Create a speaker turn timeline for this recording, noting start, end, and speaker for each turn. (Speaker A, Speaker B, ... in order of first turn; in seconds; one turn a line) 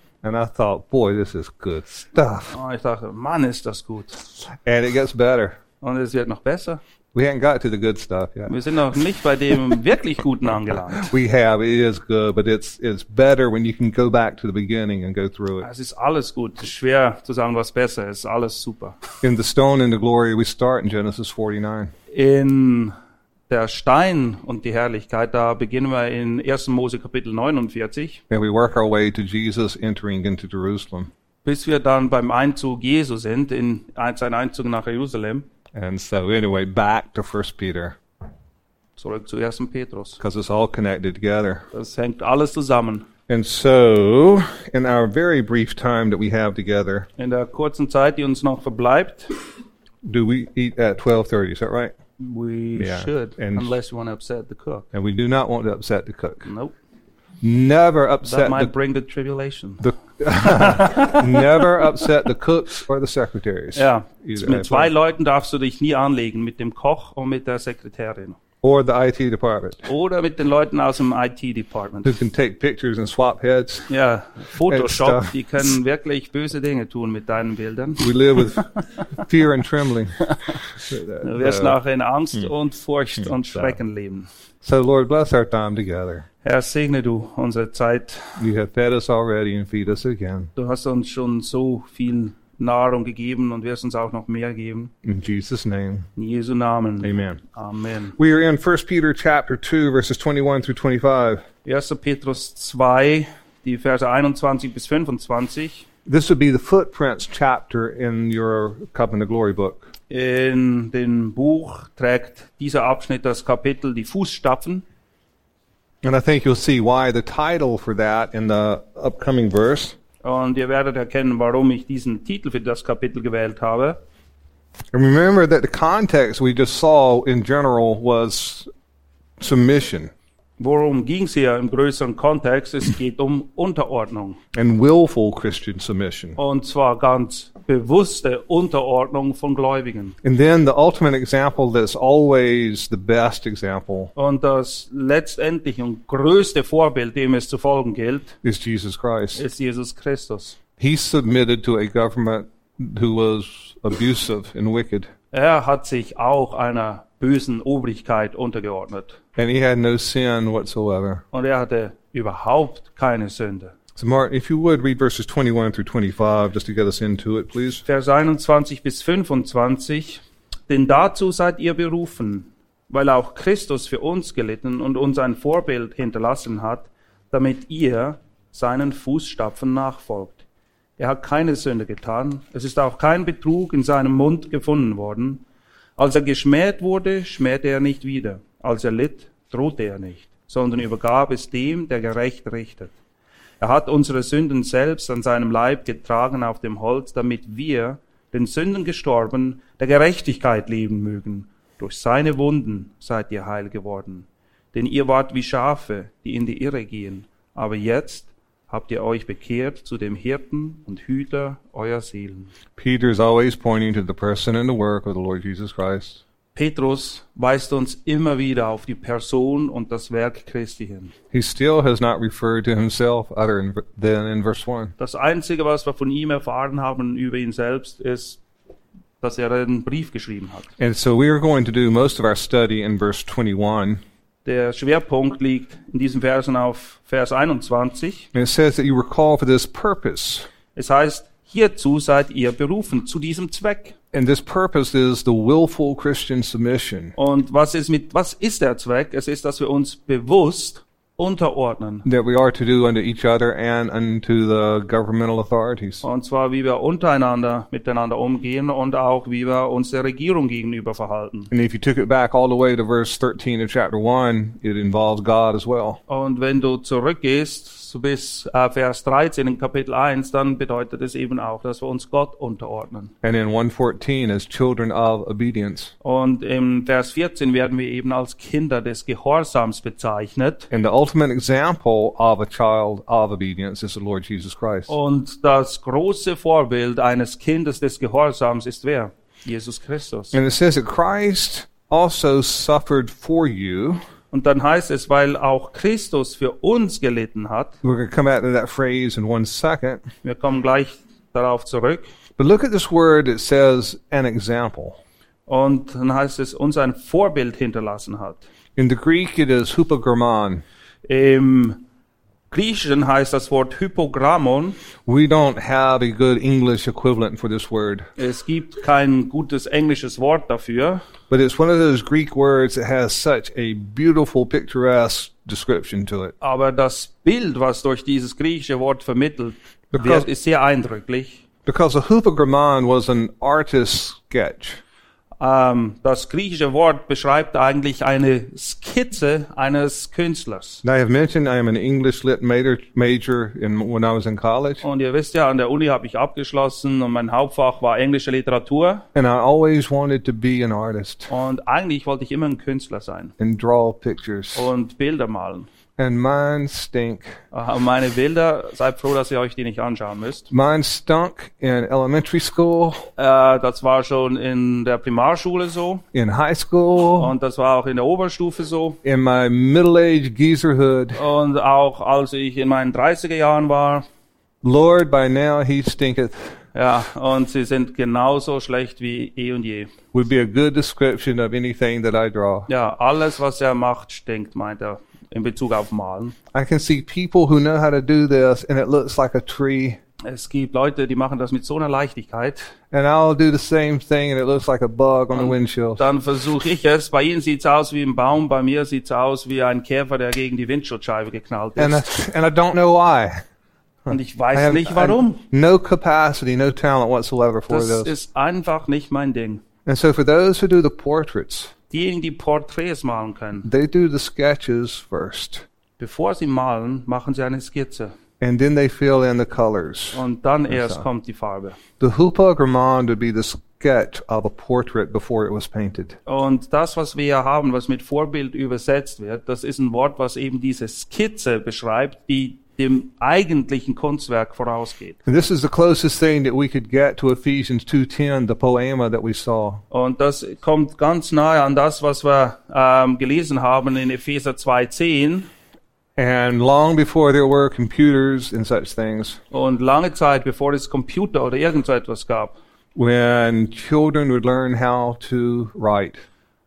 Speaker A: 0.2-2.5
Speaker B: 2.5-4.2
Speaker A: 4.5-5.6
Speaker B: 5.8-6.8
Speaker A: 7.1-8.5
Speaker B: 8.5-11.1
Speaker A: 10.9-15.7
Speaker B: 15.6-19.0
Speaker A: 19.2-21.9
Speaker B: 22.1-22.9
Speaker B: 23.5-28.2
Speaker A: 28.3-31.1
Speaker B: 31.4-35.5
Speaker A: 35.7-38.0
Speaker B: 39.0-40.2
Speaker A: 40.2-41.6
Speaker B: 41.7-43.1
Speaker A: 43.3-47.1
Speaker B: 47.2-49.4
Speaker A: 50.0-51.9
Speaker B: 52.2-54.9
Speaker A: 52.8-53.7
Speaker A: 54.9-56.5
Speaker B: 56.4-56.7
Speaker A: 57.4-58.7
Speaker B: 58.2-61.2
Speaker A: 59.8-64.9
Speaker B: 63.7-68.4
Speaker A: 68.6-69.9
Speaker B: 69.8-72.2
Speaker A: 72.0-73.9
Speaker B: 73.9-78.7
Speaker A: 74.7-75.3
Speaker A: 78.0-81.8
Speaker B: 81.2-84.3
Speaker A: 83.2-83.8
Speaker A: 84.6-86.2
Speaker B: 86.4-88.4
Speaker A: 88.4-90.5
Speaker B: 90.5-94.9
Speaker A: 95.0-96.1
Speaker B: 96.2-98.2
Speaker A: 97.0-97.4
Speaker A: 98.2-101.4
Speaker B: 101.6-105.8
Speaker A: 106.0-109.9
Speaker B: 110.1-114.8
Speaker A: 116.0-120.0
Speaker B: 120.2-124.0
Speaker A: 124.9-128.7
Speaker A: 129.4-130.1
Speaker B: 130.6-134.4
Speaker A: 134.5-136.4
Speaker B: 136.3-140.2
Speaker A: 140.2-144.1
Speaker B: 144.2-148.4
Speaker A: 148.4-149.4
Speaker B: 149.3-150.6
Speaker A: 150.8-155.1
Speaker B: 155.3-159.2
Speaker A: 159.3-161.2
Speaker B: 161.3-163.7
Speaker A: 163.9-167.8
Speaker B: 167.8-180.4
Speaker B: 181.0-185.4
Speaker B: 186.0-192.9
Speaker B: 193.6-212.5
Speaker A: 212.8-216.2
Speaker B: 216.5-221.1
Speaker A: 221.3-224.9
Speaker B: 225.0-228.4
Speaker B: 229.2-230.7
Speaker A: 230.8-234.0
Speaker B: 234.4-238.3
Speaker A: 238.3-240.5
Speaker B: 240.7-243.9
Speaker A: 244.1-247.1
Speaker B: 247.2-252.1
Speaker A: 252.0-256.0
Speaker B: 256.0-261.5
Speaker A: 261.5-266.0
Speaker B: 266.1-273.1
Speaker A: 273.2-275.9
Speaker B: 276.0-280.7
Speaker A: 280.7-284.9
Speaker B: 284.9-290.4
Speaker A: 290.3-294.0
Speaker B: 294.3-297.8
Speaker A: 297.8-300.0
Speaker B: 300.2-302.1
Speaker A: 302.4-305.0
Speaker B: 305.5-308.4
Speaker A: 308.8-310.6
Speaker B: 311.1-311.8
Speaker B: 312.5-314.8
Speaker A: 315.1-318.1
Speaker B: 318.2-321.0
Speaker A: 321.3-326.3
Speaker B: 326.4-331.4
Speaker A: 329.9-330.3
Speaker A: 331.6-334.8
Speaker B: 335.4-340.8
Speaker A: 340.8-344.8
Speaker B: 344.8-349.1
Speaker A: 349.1-351.3
Speaker B: 351.3-353.3
Speaker A: 353.4-354.7
Speaker B: 354.5-355.7
Speaker A: 356.0-357.4
Speaker B: 357.5-360.5
Speaker A: 360.5-363.1
Speaker B: 363.2-366.0
Speaker A: 366.1-367.3
Speaker B: 367.2-369.0
Speaker A: 369.0-371.2
Speaker B: 371.1-374.1
Speaker A: 374.6-376.5
Speaker B: 376.7-379.9
Speaker A: 380.1-382.7
Speaker B: 382.7-386.4
Speaker A: 386.5-390.0
Speaker B: 390.2-392.7
Speaker A: 392.9-396.1
Speaker B: 395.3-402.1
Speaker A: 401.8-403.4
Speaker A: 404.1-408.1
Speaker B: 404.1-405.4
Speaker B: 407.7-409.6
Speaker A: 409.9-411.7
Speaker B: 411.9-413.7
Speaker A: 413.6-415.6
Speaker B: 416.0-418.1
Speaker A: 418.4-421.0
Speaker B: 420.1-421.8
Speaker A: 422.0-426.2
Speaker B: 426.2-435.2
Speaker A: 435.2-439.8
Speaker B: 439.9-445.5
Speaker A: 446.2-449.4
Speaker B: 449.5-452.6
Speaker A: 452.9-456.2